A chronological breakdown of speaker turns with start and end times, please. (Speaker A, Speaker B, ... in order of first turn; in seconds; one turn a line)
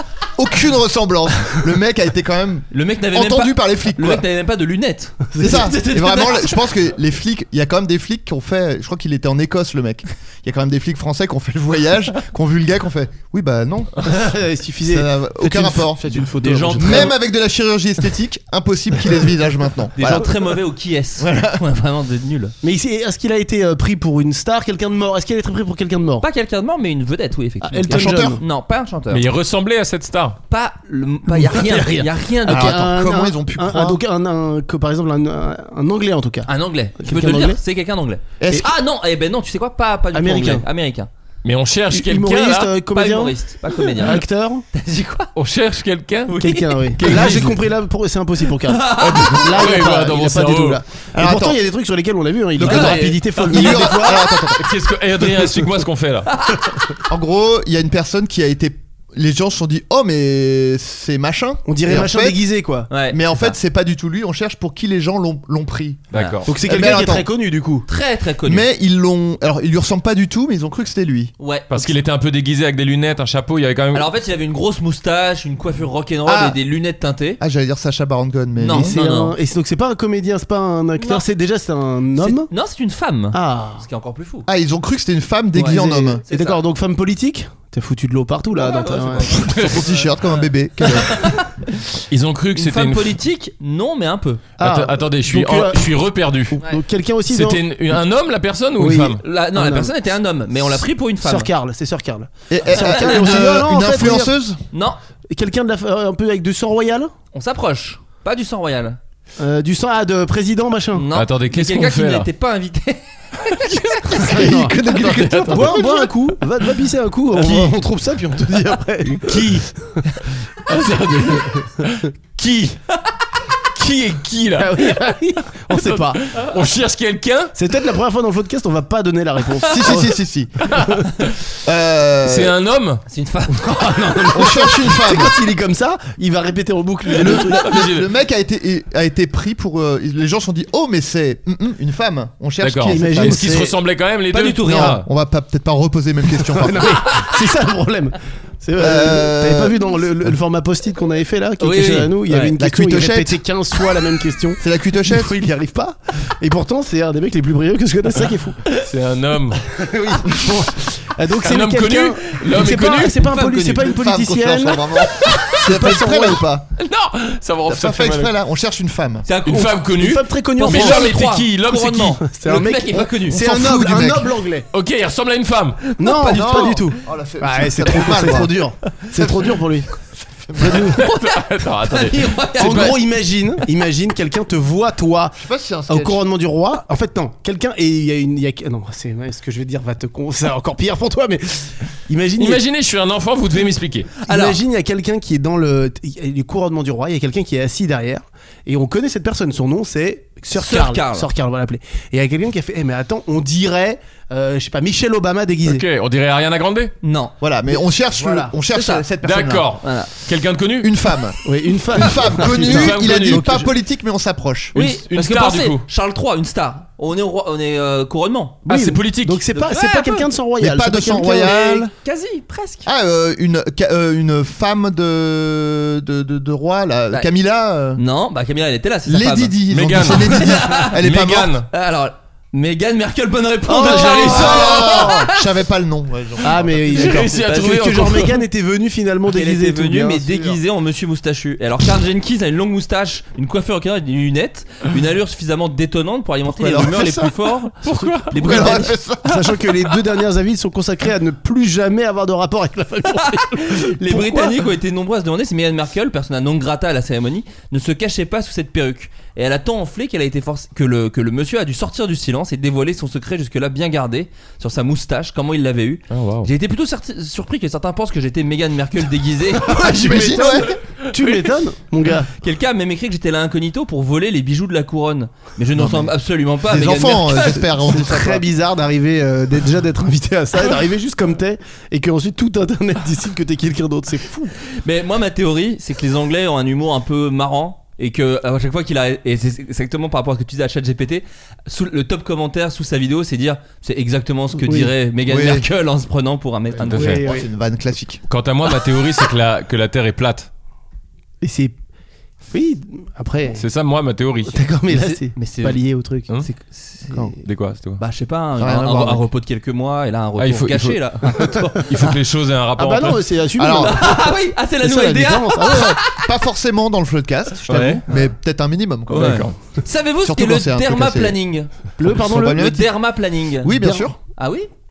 Speaker A: 0.3-4.2
Speaker B: 2.7-6.6
Speaker C: 5.3-5.7
Speaker A: 5.4-14.1
Speaker C: 14.0-17.1
Speaker A: 14.8-16.0
Speaker B: 16.3-17.1
Speaker A: 16.8-20.3
Speaker B: 19.9-22.5
Speaker A: 21.2-21.6
Speaker C: 22.6-26.3
Speaker B: 26.2-29.2
Speaker C: 27.6-28.4
Speaker A: 27.9-28.4
Speaker D: 29.1-30.4
Speaker B: 30.5-32.8
Speaker C: 31.3-37.6
Speaker A: 32.4-34.0
Speaker B: 36.5-41.1
Speaker A: 38.4-38.7
Speaker C: 40.1-40.6
Speaker D: 41.4-42.8
Speaker C: 41.9-44.6
Speaker B: 42.9-45.3
Speaker D: 45.4-46.3
Speaker B: 46.3-46.8
Speaker C: 46.4-54.2
Speaker D: 46.9-47.6
Speaker B: 48.7-49.3
Speaker D: 49.0-50.8
Speaker A: 51.1-51.6
Speaker A: 52.5-54.6
Speaker B: 52.6-54.1
Speaker D: 54.6-56.3
Speaker A: 57.1-62.4
Speaker C: 61.7-62.9
Speaker B: 62.9-63.5
Speaker A: 63.1-66.0
Speaker D: 66.1-66.5
Speaker B: 66.1-66.4
Speaker C: 66.5-67.9
Speaker A: 66.6-67.3
Speaker B: 67.9-68.7
Speaker A: 68.4-71.3
Speaker B: 71.4-71.9
Speaker D: 71.7-74.1
Speaker B: 73.9-77.4
Speaker A: 76.2-76.6
Speaker A: 77.4-79.0
Speaker B: 78.6-79.3
Speaker C: 78.8-82.5
Speaker B: 81.0-81.2
Speaker B: 82.2-84.5
Speaker C: 83.3-83.8
Speaker A: 84.5-86.2
Speaker B: 85.5-86.6
Speaker C: 85.6-89.5
Speaker B: 88.5-91.6
Speaker A: 89.4-91.3
Speaker D: 92.1-93.2
Speaker B: 92.5-94.4
Speaker C: 94.6-95.9
Speaker D: 94.6-96.6
Speaker C: 96.5-97.6
Speaker D: 97.3-99.2
Speaker C: 98.8-99.9
Speaker B: 99.2-101.5
Speaker C: 101.2-104.3
Speaker A: 102.5-104.6
Speaker B: 102.7-103.5
Speaker B: 104.7-105.0
Speaker C: 105.3-107.1
Speaker B: 107.3-109.0
Speaker C: 109.4-111.0
Speaker B: 110.9-114.2
Speaker D: 111.1-112.3
Speaker D: 113.6-114.3
Speaker C: 114.2-119.6
Speaker A: 114.2-115.8
Speaker D: 115.0-116.1
Speaker A: 117.3-117.7
Speaker D: 119.1-119.7
Speaker D: 120.7-122.8
Speaker D: 123.7-127.5
Speaker C: 124.6-126.4
Speaker C: 127.5-130.2
Speaker A: 129.6-130.7
Speaker D: 130.6-131.0
Speaker A: 131.6-132.6
Speaker D: 132.2-133.0
Speaker B: 133.1-134.7
Speaker C: 133.6-137.8
Speaker A: 134.3-135.4
Speaker D: 137.1-138.1
Speaker A: 137.2-143.6
Speaker D: 142.6-145.1
Speaker C: 142.9-143.8
Speaker B: 144.3-145.0
Speaker A: 144.6-147.0
Speaker C: 146.5-158.6
Speaker A: 148.8-149.9
Speaker B: 151.6-152.5
Speaker A: 152.5-153.4
Speaker A: 154.6-155.4
Speaker D: 158.7-159.6
Speaker C: 159.7-164.9
Speaker D: 161.4-163.5
Speaker B: 163.2-163.8
Speaker A: 163.8-166.7
Speaker D: 165.2-165.7
Speaker C: 165.6-166.4
Speaker D: 166.8-168.3
Speaker A: 167.7-169.2
Speaker B: 169.2-170.0
Speaker D: 169.4-172.2
Speaker C: 169.9-171.1
Speaker B: 170.6-173.4
Speaker C: 172.3-174.7
Speaker A: 172.9-174.3
Speaker D: 174.7-175.8
Speaker B: 176.0-176.4
Speaker C: 176.0-179.9
Speaker A: 176.2-178.6
Speaker A: 180.2-180.9
Speaker C: 180.6-181.0
Speaker D: 181.0-183.0
Speaker B: 181.0-182.9
Speaker C: 182.6-192.6
Speaker A: 185.4-186.2
Speaker D: 192.4-194.1
Speaker C: 194.2-205.8
Speaker B: 194.3-194.6
Speaker B: 200.5-201.3
Speaker D: 205.6-206.9
Speaker B: 207.0-207.3
Speaker A: 207.4-209.7
Speaker C: 207.7-208.5
Speaker B: 208.7-209.1
Speaker D: 209.2-210.9
Speaker B: 209.8-210.1
Speaker A: 210.8-214.8
Speaker C: 211.4-213.7
Speaker D: 212.3-213.5
Speaker D: 214.7-215.8
Speaker B: 214.7-218.6
Speaker C: 218.7-221.8
Speaker D: 218.7-219.4
Speaker B: 219.5-220.3
Speaker A: 220.6-221.9
Speaker B: 221.5-222.9
Speaker A: 222.8-228.0
Speaker B: 227.9-230.9
Speaker A: 229.1-231.6
Speaker D: 229.7-231.7
Speaker B: 231.7-235.4
Speaker C: 233.7-235.0
Speaker D: 233.8-235.0
Speaker A: 233.8-237.2
Speaker C: 236.4-240.5
Speaker D: 236.9-238.4
Speaker B: 239.3-248.9
Speaker A: 246.5-247.3
Speaker D: 247.8-248.7
Speaker A: 248.3-249.5
Speaker C: 249.2-254.6
Speaker B: 253.2-270.4
Speaker D: 266.1-266.5
Speaker C: 269.7-272.3
Speaker A: 269.9-270.7
Speaker B: 272.4-277.7
Speaker A: 275.7-276.1
Speaker A: 276.6-278.4
Speaker C: 277.8-284.5
Speaker B: 284.8-297.3
Speaker C: 294.6-294.9
Speaker A: 295.2-295.6
Speaker D: 296.9-297.2
Speaker C: 296.9-297.5
Speaker A: 297.2-298.2
Speaker D: 298.3-300.5
Speaker C: 301.4-301.7
Speaker C: 302.5-303.6
Speaker D: 303.5-304.6
Speaker C: 304.5-306.3
Speaker B: 304.9-307.3
Speaker D: 307.4-308.0
Speaker B: 308.0-311.9
Speaker A: 308.6-309.2
Speaker D: 310.4-313.3
Speaker C: 312.8-315.9
Speaker A: 313.6-314.1
Speaker B: 313.7-316.2
Speaker A: 315.6-319.5
Speaker D: 317.7-318.0
Speaker B: 319.1-323.7
Speaker D: 319.1-319.5
Speaker A: 320.2-321.4
Speaker C: 322.0-322.8
Speaker A: 322.0-322.9
Speaker A: 323.6-324.2
Speaker C: 323.7-324.1
Speaker B: 324.4-324.7